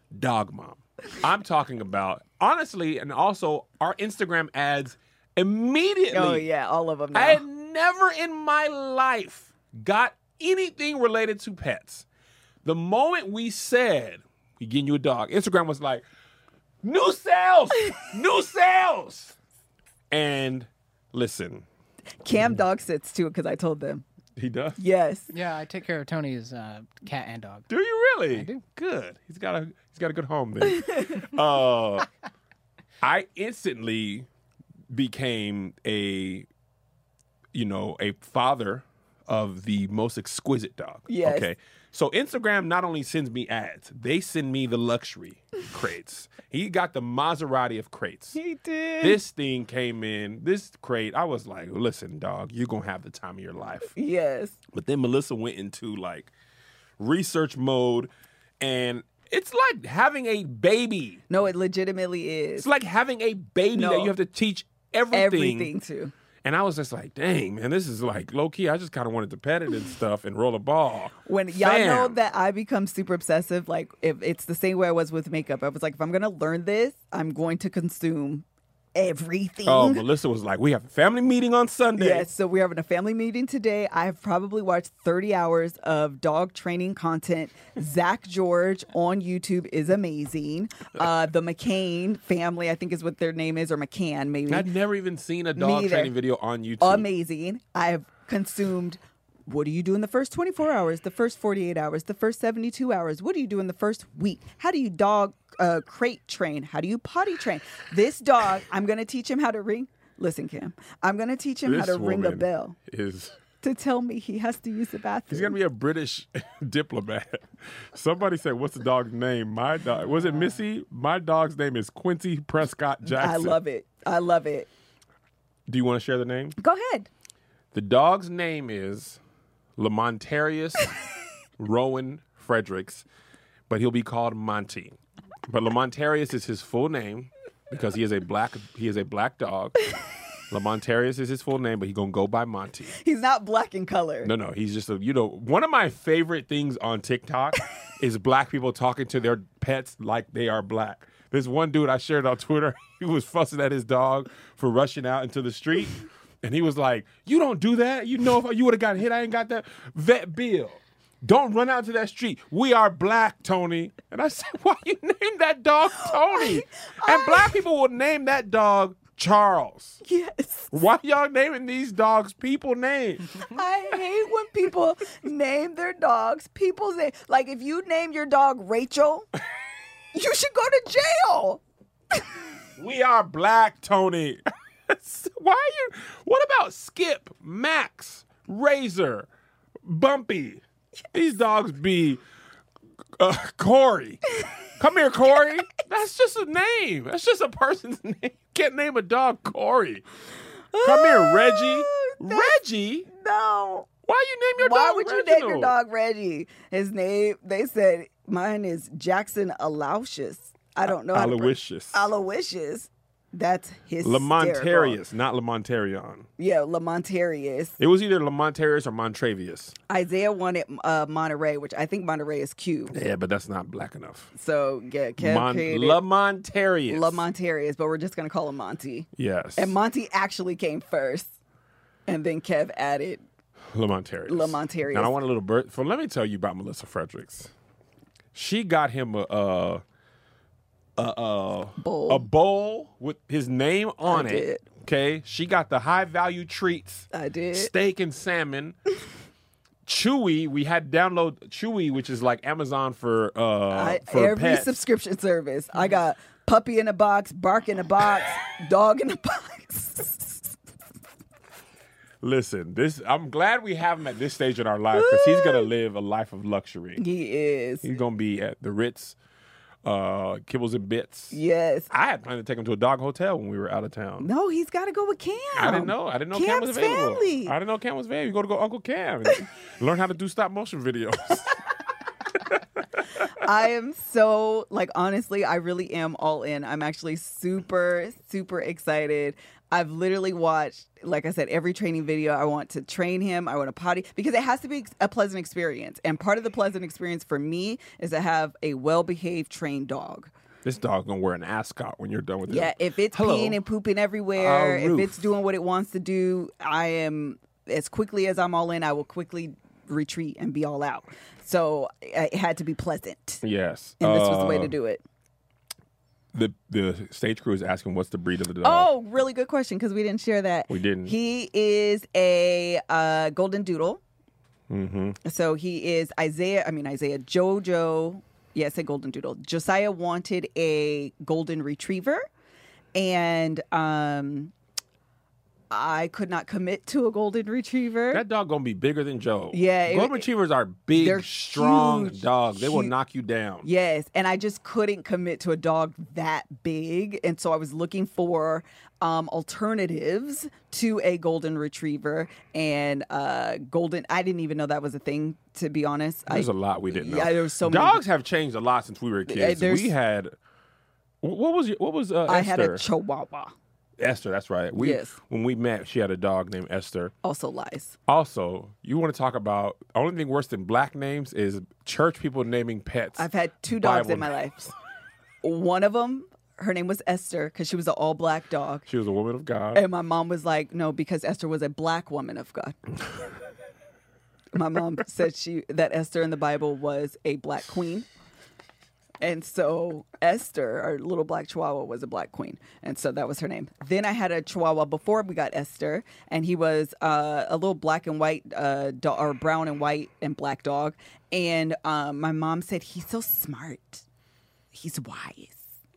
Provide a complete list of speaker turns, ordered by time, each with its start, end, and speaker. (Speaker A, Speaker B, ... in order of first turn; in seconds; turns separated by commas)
Speaker A: 0.1-6.4, Speaker B: 6.1-7.4, Speaker A: 7.1-12.1, Speaker A: 12.7-16.0, Speaker A: 16.8-19.4, Speaker A: 20.1-21.6, Speaker B: 22.2-24.0, Speaker A: 24.4-24.8, Speaker B: 24.8-25.3, Speaker C: 25.3-27.7, Speaker A: 27.7-32.1, Speaker C: 28.3-28.6, Speaker A: 33.0-34.3, Speaker A: 34.9-36.5, Speaker A: 37.5-48.4, Speaker B: 41.1-41.5, Speaker B: 48.4-49.2, Speaker A: 49.0-53.9, Speaker B: 54.0-54.6, Speaker A: 54.7-56.3, Speaker A: 57.0-58.1, Speaker A: 58.6-61.2, Speaker B: 61.3-62.7, Speaker A: 62.6-65.7, Speaker B: 63.8-64.1, Speaker B: 65.1-66.1, Speaker A: 66.4-72.2, Speaker B: 71.2-78.5, Speaker B: 79.0-80.0, Speaker A: 79.7-82.3, Speaker B: 82.0-94.7, Speaker A: 94.5-97.1, Speaker B: 95.6-96.1, Speaker B: 96.8-112.8, Speaker A: 111.7-113.3, Speaker B: 113.6-115.5, Speaker A: 115.3-123.6, Speaker B: 123.1-124.7, Speaker A: 125.7-126.5, Speaker B: 126.6-127.1, Speaker A: 127.7-129.2, Speaker A: 129.8-130.9, Speaker A: 131.6-133.1, Speaker A: 133.7-135.0, Speaker A: 135.5-139.9, Speaker A: 140.5-142.9, Speaker B: 142.9-144.3, Speaker A: 144.2-170.0, Speaker B: 166.0-167.6, Speaker B: 170.0-170.7, Speaker A: 170.7-173.5, Speaker B: 173.4-179.3, Speaker B: 180.1-181.6, Speaker A: 182.8-189.3, Speaker A: 189.8-190.6, Speaker A: 191.1-192.2, Speaker A: 193.2-200.0, Speaker B: 200.7-202.6, Speaker A: 200.8-203.1, Speaker B: 203.1-203.9, Speaker A: 204.1-205.7, Speaker B: 204.6-215.0, Speaker A: 211.1-212.0, Speaker A: 214.0-216.3, Speaker B: 216.4-217.8, Speaker A: 217.8-219.8, Speaker B: 219.9-222.9, Speaker A: 222.9-224.3, Speaker B: 224.3-226.0, Speaker A: 225.2-227.2, Speaker B: 226.9-231.3, Speaker A: 229.2-229.8, Speaker B: 232.1-233.2, Speaker A: 233.7-237.5, Speaker B: 234.3-235.1, Speaker A: 238.3-239.8, Speaker A: 241.0-248.8, Speaker B: 241.8-242.3, Speaker B: 244.1-244.6, Speaker B: 247.1-247.7, Speaker A: 249.9-254.8, Speaker B: 253.7-260.5, Speaker A: 262.2-267.0, Speaker B: 264.9-265.7, Speaker B: 267.0-267.9, Speaker A: 267.8-269.2, Speaker A: 269.8-271.4, Speaker B: 271.3-271.9, Speaker A: 271.9-274.3, Speaker B: 274.2-277.5, Speaker A: 275.6-281.6, Speaker B: 283.4-300.3, Speaker A: 300.6-303.6, Speaker B: 302.5-313.4, Speaker A: 304.4-305.3, Speaker A: 313.4-314.7, Speaker B: 314.0-315.0, Speaker A: 316.3-318.9, Speaker B: 318.6-324.0, Speaker A: 320.7-321.1, Speaker A: 324.7-325.2, Speaker B: 325.2-332.3, Speaker B: 332.9-334.5, Speaker B: 335.7-338.2, Speaker A: 338.1-343.7, Speaker B: 339.5-340.3, Speaker B: 340.9-342.9, Speaker B: 343.6-358.0, Speaker A: 356.3-360.4, Speaker B: 359.3-359.9, Speaker A: 361.2-362.9, Speaker B: 362.3-363.5, Speaker A: 364.0-367.1, Speaker B: 364.8-365.1, Speaker B: 367.2-367.9, Speaker A: 368.1-374.4, Speaker B: 373.2-374.7, Speaker B: 375.4-378.9, Speaker A: 378.9-379.8, Speaker B: 379.7-382.8, Speaker B: 384.5-388.1, Speaker B: 389.2-404.1, Speaker B: 404.7-405.7